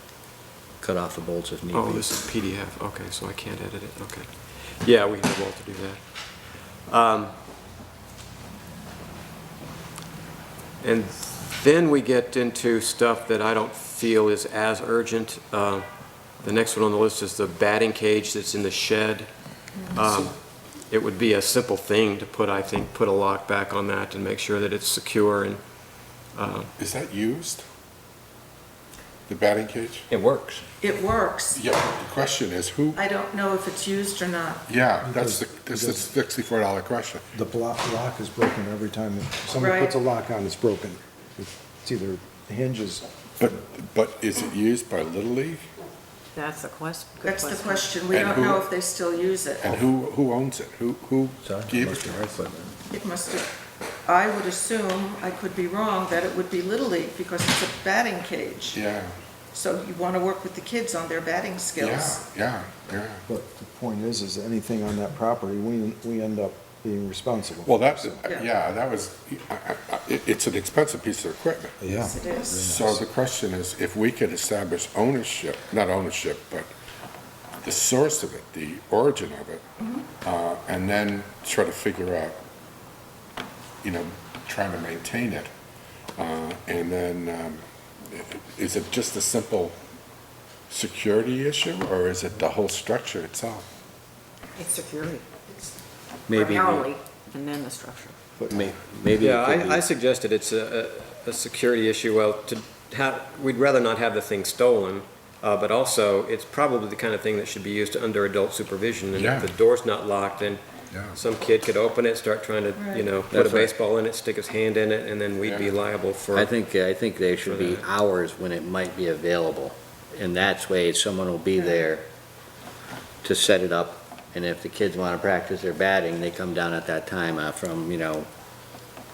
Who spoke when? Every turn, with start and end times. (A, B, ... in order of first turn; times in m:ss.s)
0:00.8-0:02.2 A
0:01.7-0:06.0 B
0:06.9-0:07.4 B
0:10.8-0:15.9 B
0:16.4-0:19.3 B
0:19.9-0:20.3 B
0:20.9-0:25.6 B
0:26.4-0:26.7 B
0:26.8-0:27.6 C
0:29.3-0:30.1 C
0:30.1-0:30.6 A
0:30.8-0:31.6 D
0:31.5-0:33.0 C
0:33.0-0:34.7 D
0:34.7-0:37.3 C
0:35.0-0:36.1 E
0:37.3-0:43.6 E
0:39.6-0:40.0 D
0:43.4-0:45.6 C
0:46.4-0:48.1 F
0:47.2-0:49.7 D
0:48.1-0:48.7 C
0:49.6-0:52.3 C
0:51.4-0:52.7 A
0:52.9-0:53.5 D
0:54.1-0:58.8 D
0:58.7-0:59.1 C
0:59.5-1:02.2 D
1:01.8-1:03.2 C
1:03.3-1:08.3 E
1:07.6-1:11.8 C
1:11.8-1:13.0 E
1:12.0-1:12.6 D
1:12.6-1:16.7 C
1:17.6-1:19.6 C
1:19.8-1:20.1 D
1:20.2-1:22.4 C
1:23.8-1:25.5 C
1:26.2-1:29.8 C
1:30.7-1:33.6 C
1:34.6-1:35.2 F
1:36.3-1:36.9 A
1:36.3-1:38.2 F
1:38.4-1:39.8 A
1:39.2-1:50.6 B
1:49.1-1:49.5 C
1:50.9-1:51.2 C
1:51.1-1:56.5 B
1:52.8-1:53.1 D
1:53.3-1:53.7 A
1:55.4-1:55.7 C
1:56.3-2:02.1 A
1:57.4-1:57.9 B
2:01.6-2:01.8 D
2:03.2-2:08.3 A